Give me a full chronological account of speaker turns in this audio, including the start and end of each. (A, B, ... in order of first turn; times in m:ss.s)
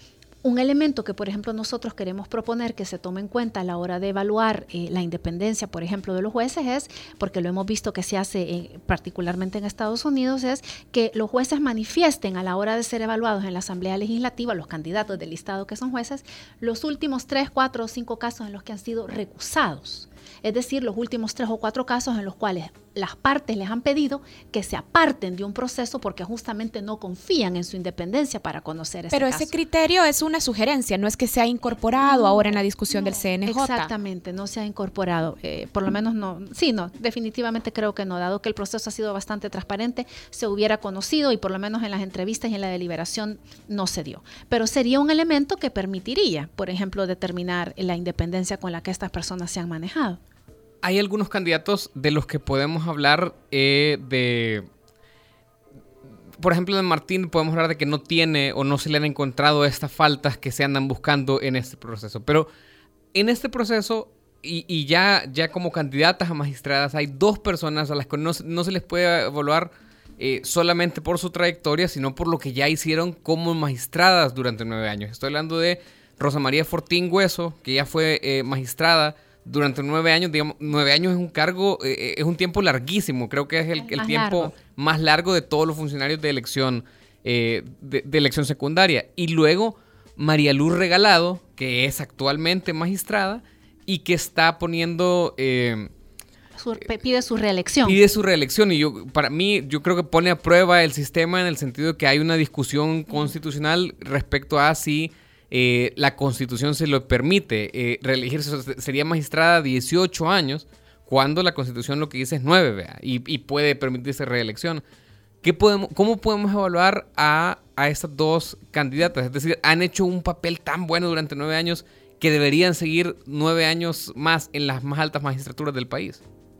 0:00.4-0:29.5 A
0:29.1-0:33.9 B
0:32.0-0:50.2 A
0:50.8-0:54.7 C
0:56.4-1:02.5 C
1:03.1-1:35.9 C
1:23.9-1:24.5 A
1:36.6-1:38.0 A
1:37.8-1:54.8 C
1:55.4-2:06.2 C